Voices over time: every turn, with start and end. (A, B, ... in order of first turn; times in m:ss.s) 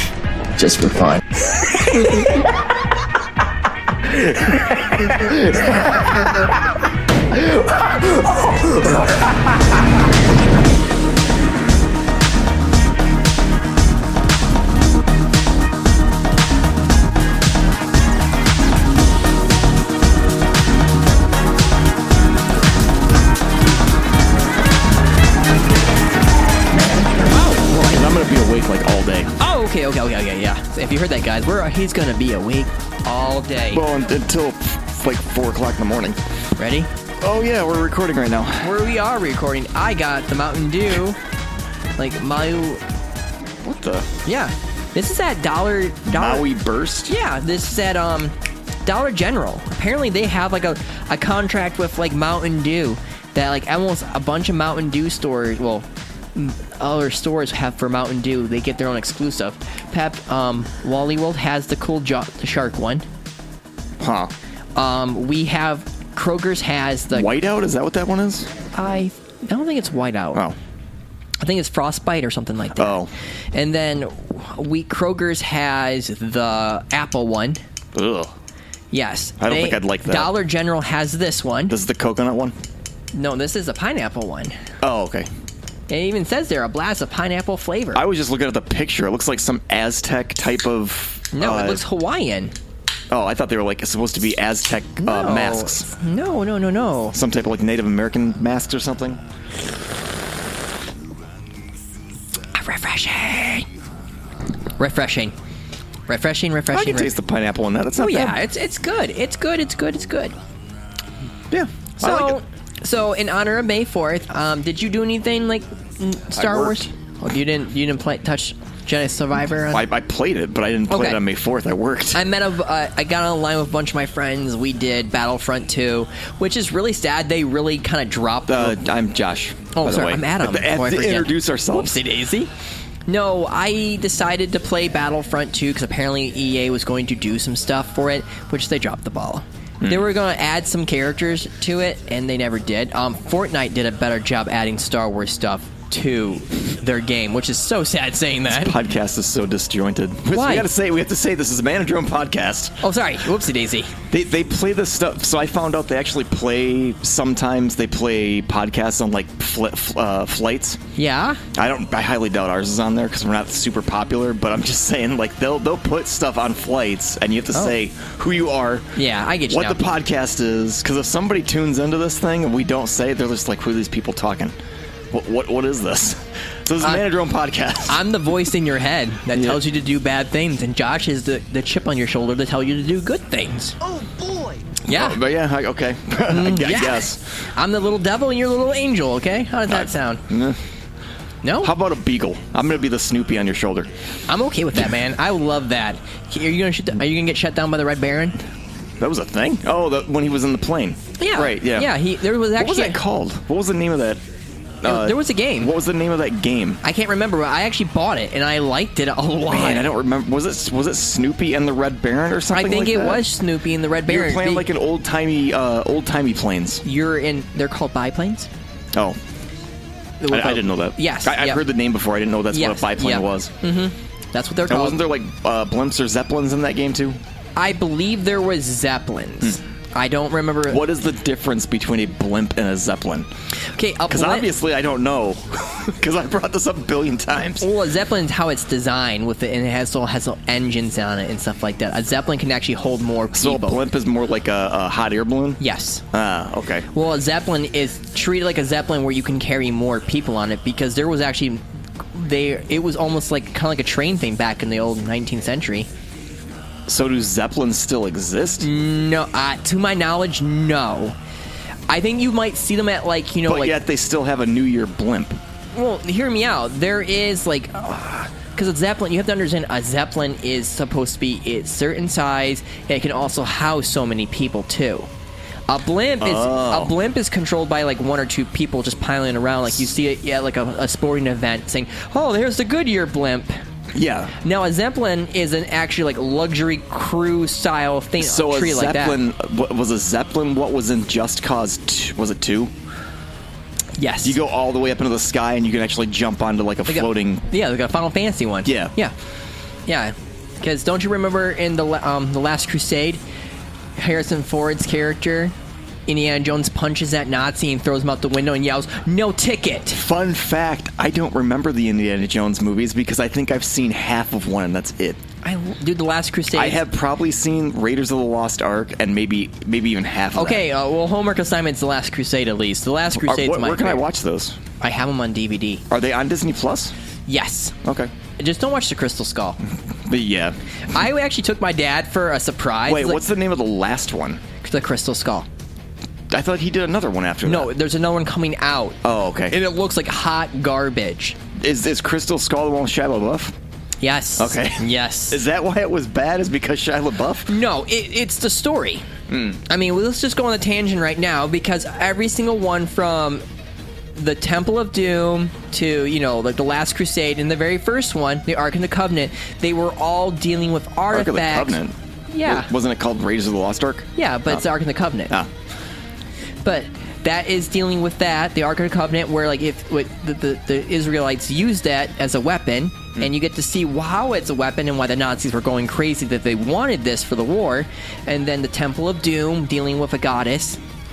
0:00.6-0:01.2 A
0:04.6-0:05.8 A
0:07.4-0:08.5 A
0:27.1-0:27.7 B
0:27.7-0:29.3 C
0:29.4-0:33.8 B
0:33.7-0:36.2 C
0:36.6-0:36.9 B
0:37.2-0:38.8 C
0:38.6-0:41.2 B
0:42.0-0:42.8 B
0:43.6-0:44.1 C
0:44.3-0:46.5 B
0:46.0-0:47.1 C
0:47.1-0:48.3 B
0:48.8-1:03.0 B
1:04.0-1:04.3 C
1:04.8-1:07.3 B
1:07.1-1:08.5 C
1:08.8-1:10.4 B
1:11.4-1:13.0 B
1:12.8-1:13.1 C
1:13.5-1:17.6 B
1:17.9-1:18.3 C
1:18.9-1:21.8 B
1:19.4-1:20.3 C
1:21.7-1:22.6 C
1:23.1-1:24.6 B
1:24.8-1:25.3 C
1:25.9-1:28.0 B
1:27.9-1:31.8 C
1:31.3-1:32.5 B
1:33.1-1:35.9 C
1:35.0-1:37.2 B
1:37.1-1:39.2 C
1:42.6-1:43.7 B
1:44.8-1:45.3 B
1:46.1-1:47.1 B
1:46.7-1:48.4 C
1:48.0-1:50.4 B
1:51.5-1:52.4 C
1:52.0-1:59.8 B
1:56.3-1:56.9 C
1:59.7-2:02.2 C
2:00.9-2:01.2 B
2:02.1-2:08.8 B
2:08.5-2:12.0 C
2:09.7-2:12.5 B
2:13.1-2:28.8 B
2:28.5-2:32.8 C
2:30.3-2:30.7 B
2:32.8-2:33.9 B
2:34.1-2:40.8 C
2:41.0-2:41.4 B
2:41.5-2:48.9 C
2:49.0-2:49.8 B
2:49.5-2:54.6 C
2:55.1-2:58.0 C
2:57.9-3:03.8 B
2:59.3-2:59.6 C
3:04.9-3:05.2 B
3:04.9-3:07.2 C
3:06.3-3:10.2 B
3:09.7-3:10.6 C
3:11.4-3:11.7 B
3:11.6-3:13.9 C
3:14.3-3:18.4 B
3:19.0-3:22.0 C
3:21.2-3:23.0 B
3:22.6-3:24.2 C
3:24.8-3:26.8 C
3:24.8-3:25.7 B
3:26.8-3:29.9 B
3:29.5-3:33.3 C
3:32.5-3:34.7 B
3:34.1-3:36.8 C
3:36.8-3:38.5 B
3:38.9-3:39.2 C
3:40.2-3:41.6 B
3:40.3-3:43.5 C
3:42.5-3:45.0 B
3:44.7-3:47.2 C
3:47.6-3:50.8 B
3:50.7-3:53.3 C
3:53.8-3:54.5 B
3:54.1-3:57.7 C
3:57.6-4:03.9 B
4:03.3-4:05.6 C
4:05.6-4:06.0 B
4:06.1-4:06.8 C
4:06.9-4:11.6 B
4:12.1-4:15.9 B
4:16.9-4:18.7 C
4:18.6-4:21.2 B
4:21.9-4:23.8 B
4:23.4-4:25.4 C
4:25.7-4:35.1 B
4:35.7-4:43.6 B
4:36.2-4:36.9 C
4:43.9-4:44.3 C
4:44.4-4:49.2 B
4:48.2-4:52.7 C
4:54.0-4:54.4 B
4:54.2-4:57.5 C
4:56.9-4:59.1 B
4:58.6-4:58.9 C
4:59.9-5:03.2 B
5:04.0-5:05.5 B
5:06.1-5:10.0 B
5:09.9-5:15.2 C
5:15.4-5:16.8 B
5:16.5-5:20.7 C
5:20.4-5:24.1 B
5:23.1-5:24.6 C
5:24.8-5:25.8 B
5:25.9-5:26.9 C
5:27.3-5:27.8 B
5:27.8-5:28.1 C
5:28.4-5:29.6 B
5:30.1-5:30.6 C
5:30.9-5:33.2 B
5:32.9-5:34.4 C
5:34.6-5:35.5 B
5:36.3-5:37.7 C
5:37.4-5:39.0 B
5:39.0-5:39.6 C
5:39.5-5:41.4 B
5:41.6-5:43.5 C
5:44.0-5:45.4 B
5:44.4-5:47.5 C
5:47.5-5:49.0 B
5:49.3-5:49.6 C
5:49.7-5:53.4 B
5:54.2-6:02.7 B
6:01.1-6:04.6 C
6:04.2-6:05.3 B
6:06.6-6:20.8 B